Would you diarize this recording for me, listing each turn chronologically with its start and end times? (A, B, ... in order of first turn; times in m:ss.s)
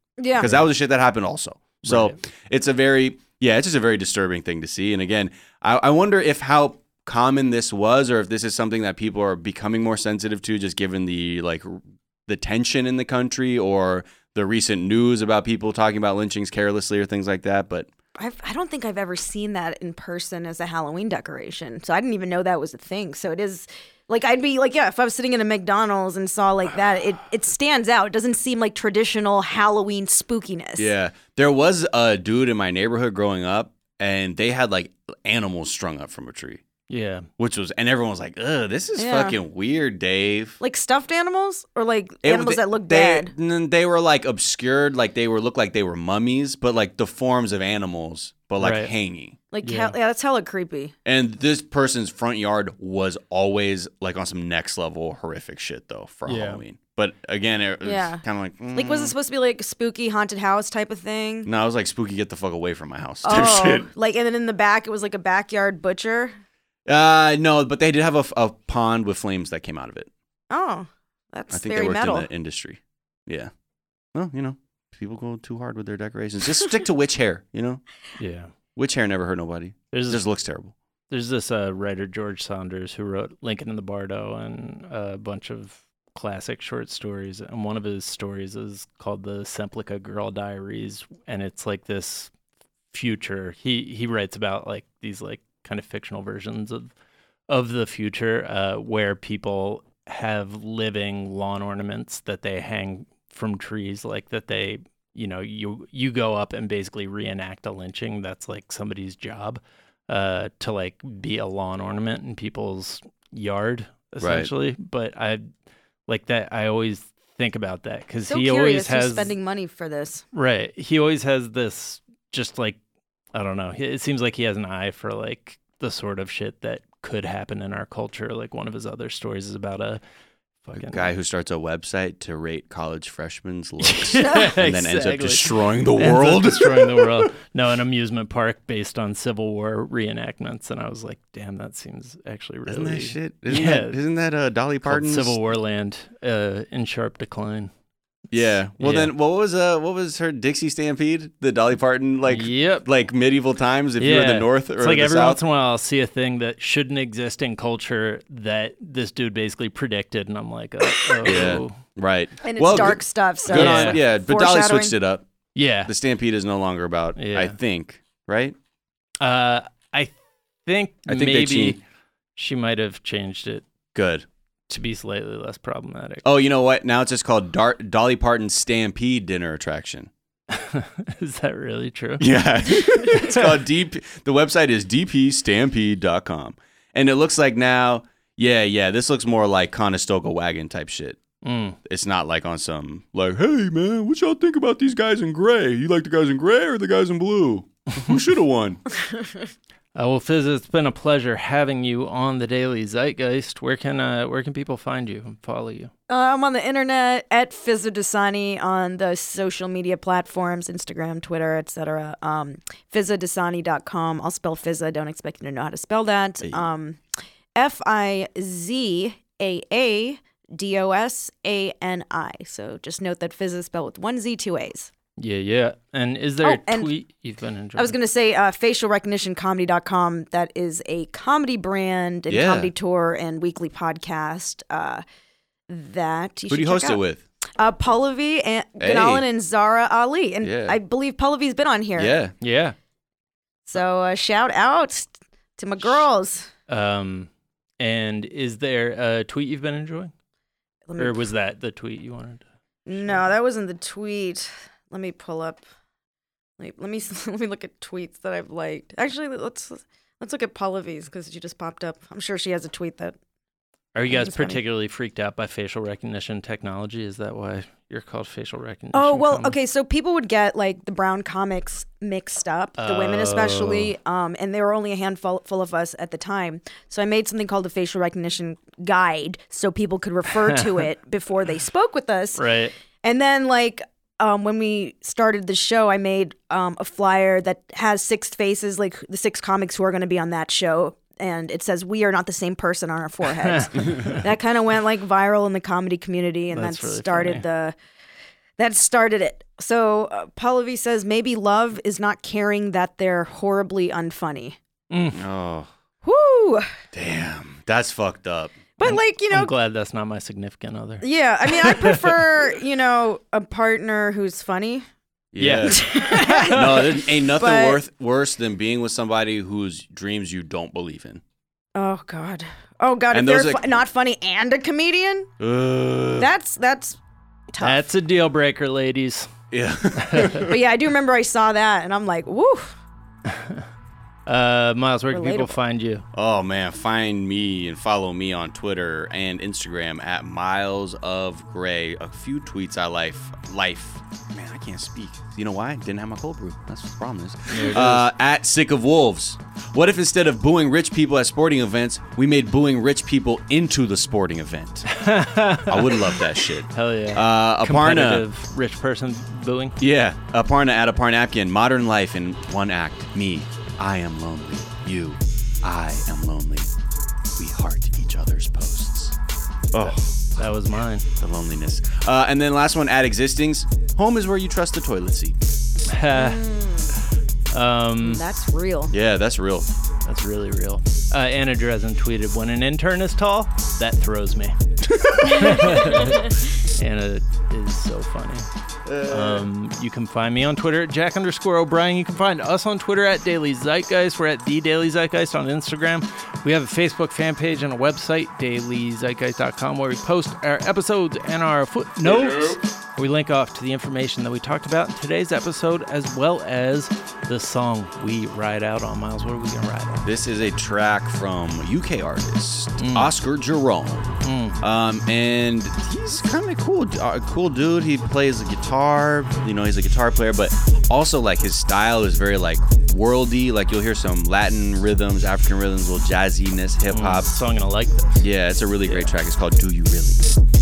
0:00.2-0:00.6 A
0:00.4-0:17.9 B
0:01.8-0:02.2 C
0:18.2-0:30.9 A
0:30.8-0:36.6 B
0:36.9-0:37.3 C
0:37.4-0:40.6 B
0:39.0-0:39.4 A
0:40.6-0:43.3 A
0:42.2-0:49.4 B
0:48.6-0:48.9 C
0:49.5-0:50.9 A
0:49.6-0:50.0 C
0:51.0-0:59.1 B
0:56.3-0:56.6 C
0:57.8-0:58.2 A
0:58.8-1:01.5 A
1:01.4-1:03.9 B
1:03.2-1:06.4 A
1:06.9-1:10.1 B
1:10.5-1:12.3 A
1:11.5-1:13.5 B
1:14.1-1:17.8 B
1:18.2-1:18.5 C
1:18.8-1:20.8 B
1:19.9-1:20.2 C
1:21.1-1:32.3 C
1:32.9-1:36.9 C
1:37.5-1:55.5 C
1:54.2-1:54.5 B
1:56.1-1:59.3 C
1:58.3-2:00.2 A
2:00.3-2:02.8 C
2:03.3-2:10.0 C
2:10.6-2:11.1 C
2:10.7-2:17.3 B
2:13.8-2:24.0 C
2:22.7-2:25.4 B
2:24.8-2:27.7 C
2:28.3-2:35.4 B
2:28.8-2:29.1 C
2:32.3-2:32.8 C
2:34.0-2:41.8 C
2:41.2-2:45.2 B
2:42.5-2:45.0 A
2:43.5-2:44.0 C
2:45.6-2:45.9 C
2:45.9-2:48.6 B
2:47.2-2:47.6 C
2:49.2-2:50.1 C
2:50.6-2:51.8 C
2:51.1-2:51.8 B
2:52.4-2:53.7 C
2:53.9-2:54.3 B
2:54.7-2:56.2 C
2:56.2-3:00.1 B
3:00.5-3:03.5 C
3:02.2-3:11.2 B
3:11.4-3:11.8 C
3:11.8-3:18.8 B
3:19.0-3:19.4 A
3:20.0-3:25.9 C
3:26.1-3:37.0 A
3:37.6-3:44.9 A
3:45.2-3:48.0 C
3:46.4-3:46.9 A
3:47.8-3:55.0 A
3:52.3-3:52.7 B
3:55.7-3:57.0 A
3:56.5-3:57.2 B
3:57.6-4:02.2 A
3:58.8-3:59.2 B
4:00.4-4:00.8 B
4:02.0-4:02.3 B
4:02.4-4:02.8 C
4:03.7-4:06.5 A
4:06.7-4:10.1 C
4:10.9-4:11.3 A
4:11.0-4:12.4 C
4:12.9-4:15.6 A
4:13.0-4:13.3 C
4:16.6-4:23.2 A
4:24.0-4:29.6 C
4:24.1-4:24.6 A
4:28.9-4:42.4 A
4:32.8-4:33.9 C
4:40.4-4:40.7 C
4:42.4-4:42.7 C
4:43.0-4:57.8 A
4:53.4-4:54.2 C
4:56.5-4:57.4 C
4:58.6-5:04.6 A
5:04.9-5:05.2 C
5:05.1-5:05.7 B
5:06.0-5:06.7 A
5:06.9-5:08.6 B
5:08.8-5:09.5 A
5:08.8-5:12.0 C
5:11.0-5:14.9 A
5:15.3-5:15.8 B
5:15.4-5:16.9 C
5:15.6-5:17.8 A
5:16.5-5:21.2 B
5:21.8-5:25.3 A
5:23.1-5:23.8 B
5:25.4-5:26.3 B
5:26.2-5:27.0 A
5:27.5-5:27.9 A
5:27.6-5:29.3 C
5:29.5-5:30.6 B
5:29.9-5:30.5 C
5:30.5-5:32.8 A
5:33.3-5:33.6 C
5:34.3-5:36.0 C
5:35.1-5:35.6 A
5:36.1-5:54.9 B
5:47.5-5:48.1 C
5:54.9-5:59.8 C
5:55.7-5:58.3 B
5:59.8-6:06.7 B
6:07.4-6:09.2 B
6:09.7-6:10.4 B
6:09.8-6:11.0 C
6:11.2-6:15.4 B
6:15.9-6:16.4 C
6:16.1-6:17.0 A
6:17.5-6:18.2 C
6:18.0-6:18.9 A
6:18.9-6:19.7 B
6:20.1-6:28.5 C
6:24.9-6:25.3 B
6:25.5-6:26.1 A
6:28.8-6:29.5 B
6:29.1-6:50.1 C
6:42.0-6:42.6 B
6:50.0-7:07.3 B
6:52.8-6:53.1 C
6:54.2-6:54.6 C
7:06.9-7:08.3 C
7:08.2-7:10.3 B
7:08.8-7:09.1 C